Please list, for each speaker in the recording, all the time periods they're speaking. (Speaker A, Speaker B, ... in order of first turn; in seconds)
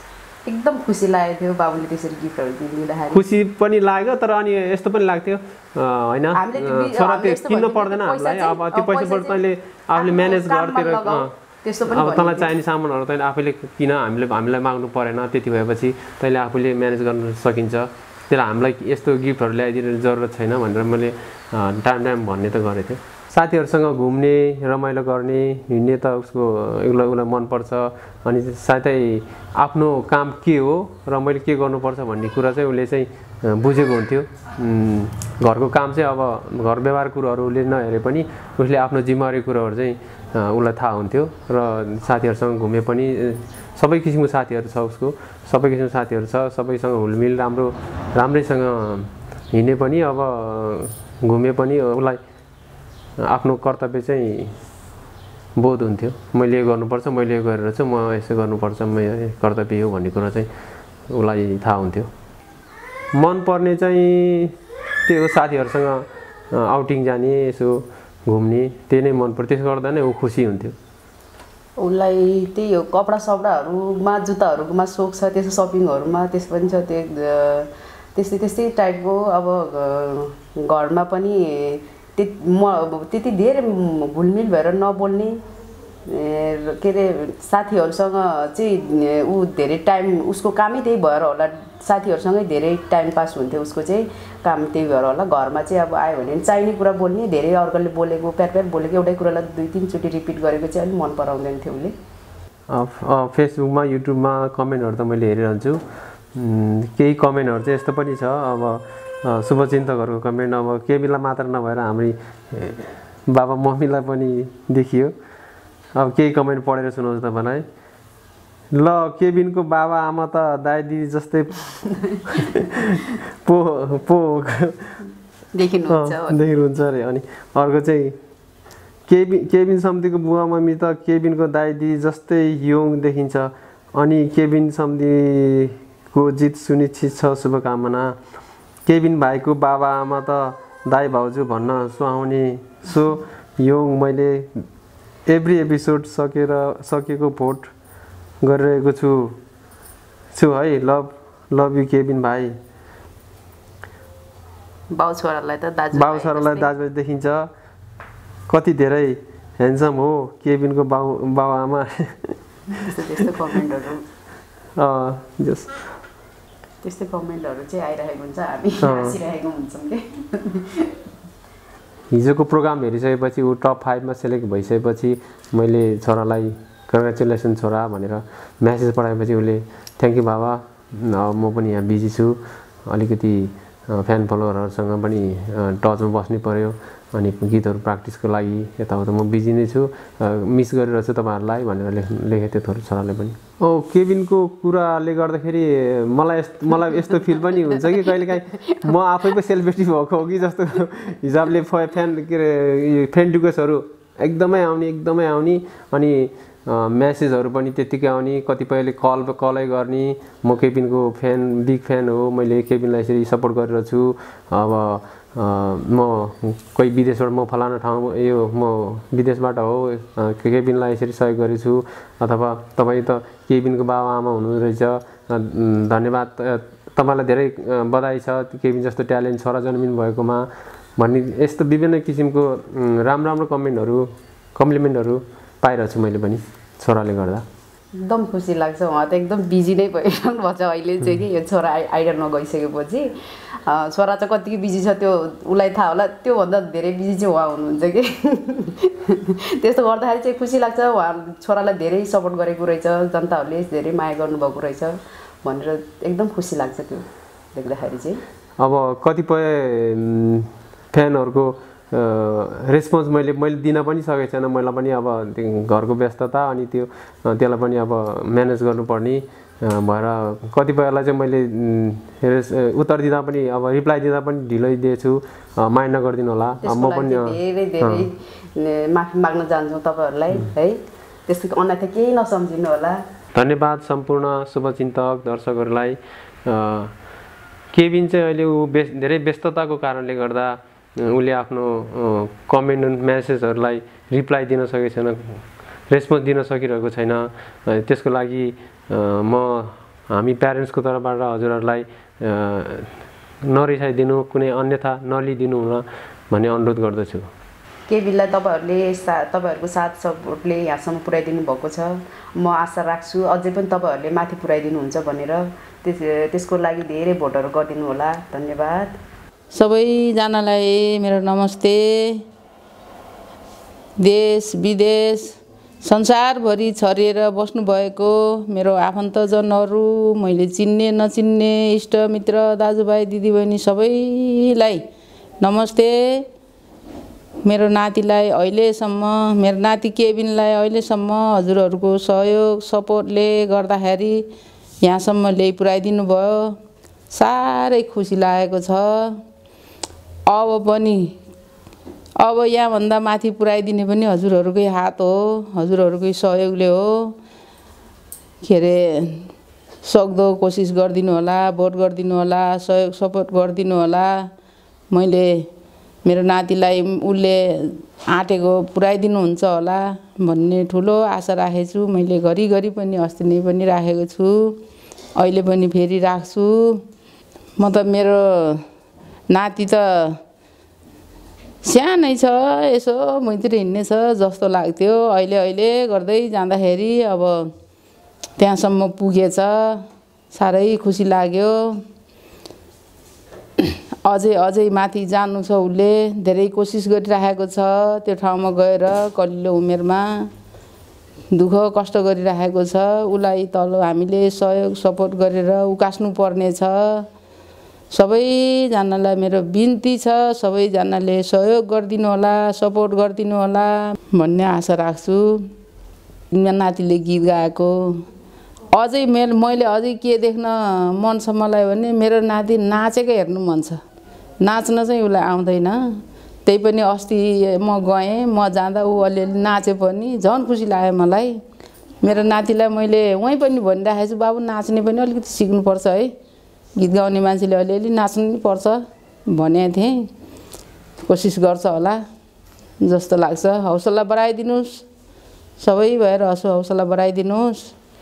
Speaker A: 0.5-3.2, 6.3-9.4, 9.9-12.5, 71.8-85.4, 86.1-101.9, 125.5-126.4, 154.9-156.7, 162.8-164.0, 166.8-170.9, 197.4-198.8, 238.0-243.1, 243.7-258.2, 276.6-283.0, 307.9-318.9
Speaker B: 3.1-11.3, 11.9-52.2, 53.2-54.5, 55.5-60.5, 61.1-62.1, 63.1-64.5, 65.0-70.7, 102.7-105.8, 106.3-115.1, 115.9-117.6, 118.7-124.9, 125.9-128.2, 129.1-138.2, 138.8-144.6, 145.3-147.7, 148.4-149.3, 150.3-152.5, 155.9-157.5, 158.5-162.4, 164.8-165.8, 168.8-169.2, 172.1-237.4, 258.6-278.1, 283.3-286.9, 287.7-302.9, 303.5-307.3
Speaker C: 319.5-322.2, 324.0-334.8, 335.4-336.2, 337.4-344.2, 344.8-346.6, 347.1-349.2, 350.3-351.1, 352.2-357.1, 358.4-359.2, 359.8-364.3, 364.9-365.4, 366.0-374.6, 375.1-376.8, 377.6-378.6, 379.3-380.2, 381.6-387.5, 388.4-391.8, 393.6-400.3, 401.3-407.1, 407.9-415.5, 416.3-418.0, 418.7-423.8, 424.4-431.4, 432.0-436.1, 436.8-440.1, 441.0-442.0, 442.8-444.8, 445.6-447.7